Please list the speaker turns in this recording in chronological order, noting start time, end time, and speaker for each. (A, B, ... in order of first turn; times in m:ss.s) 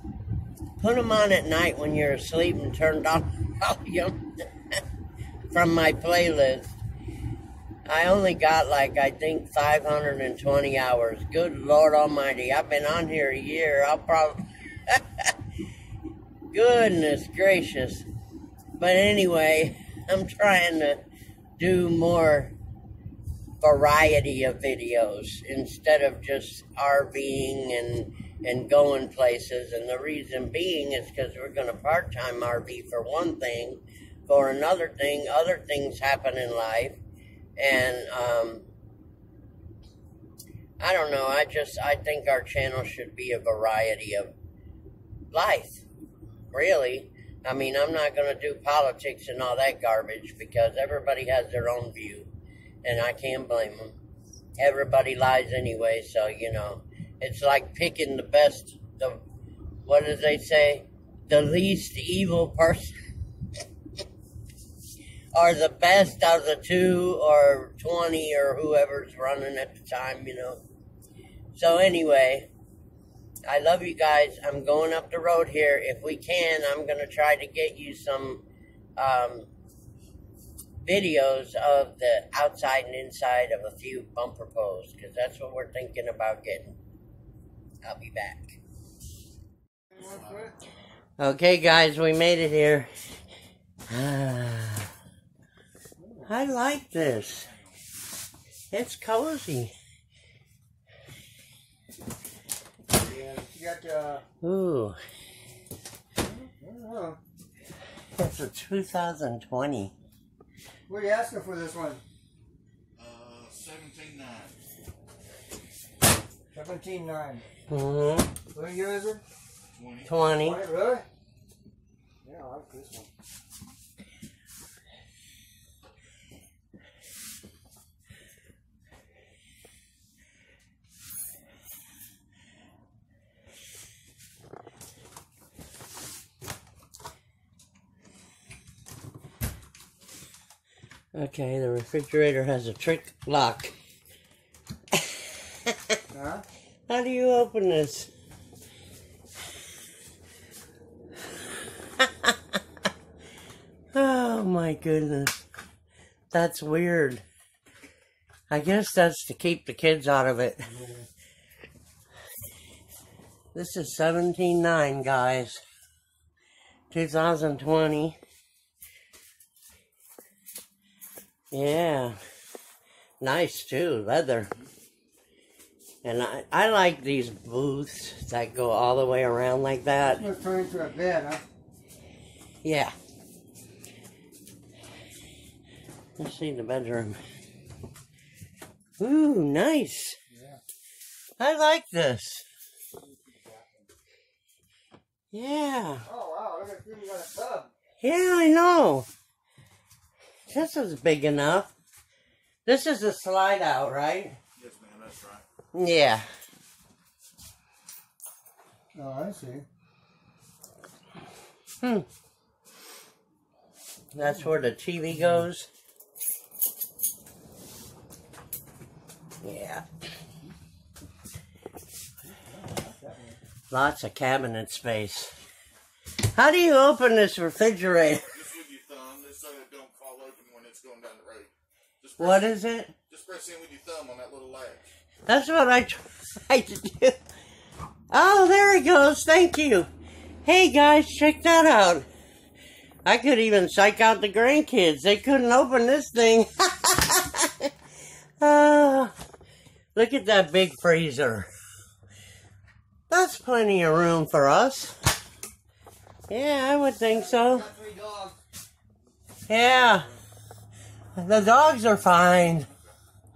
0:00.8-0:04.3 A
0:05.5-0:06.8 A
0:07.8-0:15.3 A
0:16.5-0:18.1 A
0:18.7-0:21.0 A
0:21.6-0:22.5 A
0:23.6-0:37.0 A
0:37.6-0:38.6 A
0:40.8-0:44.3 A
0:45.3-0:45.8 A
0:46.5-0:52.3 A
0:52.8-0:54.0 A
0:54.6-0:59.2 A
0:59.8-1:02.9 A
1:05.3-1:10.6 A
1:11.5-1:12.5 A
1:13.5-1:18.4 A
1:19.0-1:19.5 A
1:20.8-1:26.8 A
1:27.8-1:28.6 A
1:29.9-1:30.5 B
1:31.2-1:32.9 A
1:33.9-1:34.9 A
1:36.0-1:36.3 B
1:36.3-1:37.5 A
1:38.7-1:39.7 A
1:43.0-1:44.2 B
1:44.4-1:45.0 A
1:46.2-1:47.2 B
1:48.2-1:49.9 A
1:50.9-1:52.0 B
1:53.0-1:54.5 C
1:56.5-1:57.4 B
1:57.7-1:58.4 A
1:58.5-1:59.2 B
1:59.8-2:00.1 C
2:00.0-2:00.6 A
2:00.4-2:01.0 B
2:02.2-2:03.1 B
2:21.1-2:23.7 A
2:24.9-2:26.0 A
2:26.1-2:26.4 B
2:26.9-2:28.1 A
2:32.0-2:32.3 A
2:33.9-2:35.4 A
2:36.3-2:37.2 A
2:38.5-2:40.7 A
2:43.5-2:45.6 A
2:46.9-2:48.2 A
2:51.5-2:52.2 A
2:53.2-2:54.5 A
2:56.0-3:00.2 A
3:00.0-3:01.4 B
3:02.6-3:02.9 A
3:06.2-3:07.2 A
3:09.0-3:10.2 A
3:10.3-3:10.6 B
3:11.4-3:12.4 A
3:13.2-3:13.8 B
3:15.3-3:16.0 A
3:16.0-3:17.7 B
3:18.0-3:19.1 A
3:20.5-3:21.7 A
3:22.6-3:24.4 A
3:24.6-3:25.4 C
3:25.7-3:26.2 A
3:28.9-3:29.6 B
3:34.1-3:35.7 A
3:39.4-3:39.8 A
3:42.2-3:43.4 B
3:43.7-3:45.3 A
3:46.3-3:48.4 A
3:48.3-3:52.5 C
3:52.2-3:52.9 A
3:53.1-3:54.9 C
3:55.3-3:57.2 A
3:58.1-3:59.9 A
4:00.4-4:02.1 A
4:03.0-4:07.7 A
4:08.4-4:09.1 A
4:09.9-4:11.5 A
4:13.1-4:15.0 A
4:16.3-4:17.7 A
4:17.1-4:18.4 B
4:19.5-4:20.1 A
4:21.2-4:22.7 A